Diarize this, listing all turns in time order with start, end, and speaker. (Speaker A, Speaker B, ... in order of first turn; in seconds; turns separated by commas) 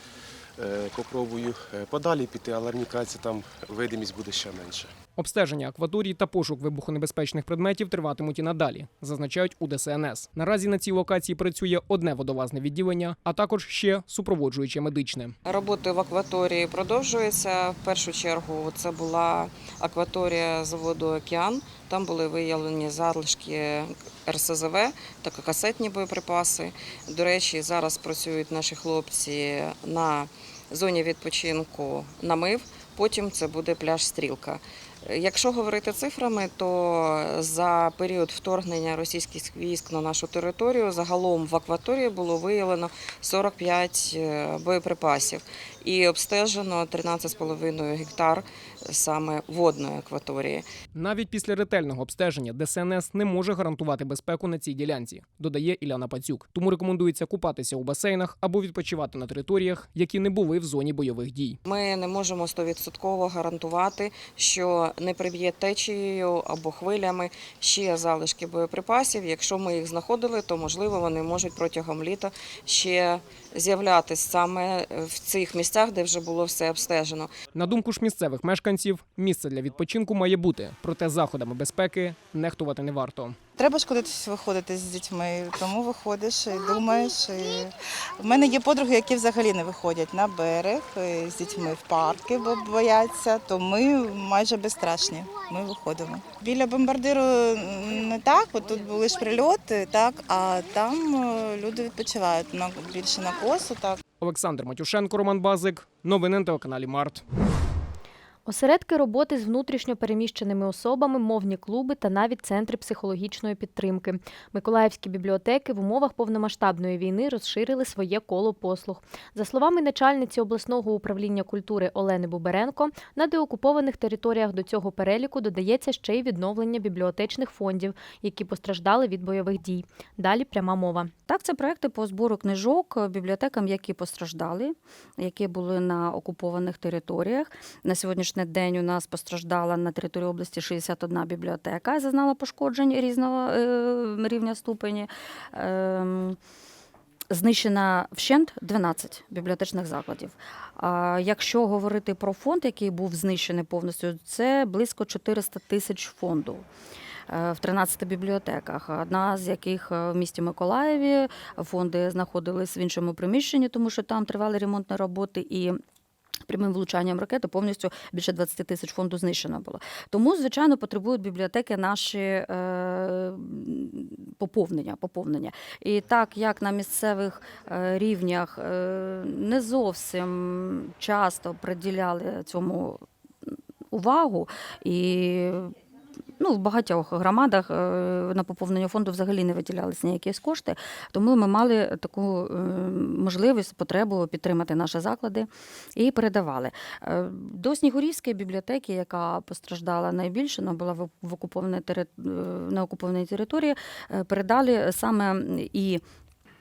Speaker A: 0.6-4.9, Speaker B: 5.2-15.3, Speaker C: 15.5-50.7, Speaker B: 51.0-61.6, Speaker C: 61.7-77.3, Speaker B: 77.5-83.4, Speaker D: 83.6-104.0, Speaker B: 104.2-107.2, Speaker E: 108.5-131.1, Speaker F: 131.3-146.4, Speaker F: 147.3-156.7, Speaker F: 157.3-165.8, Speaker F: 166.5-183.0, Speaker F: 183.9-185.7, Speaker F: 186.4-206.0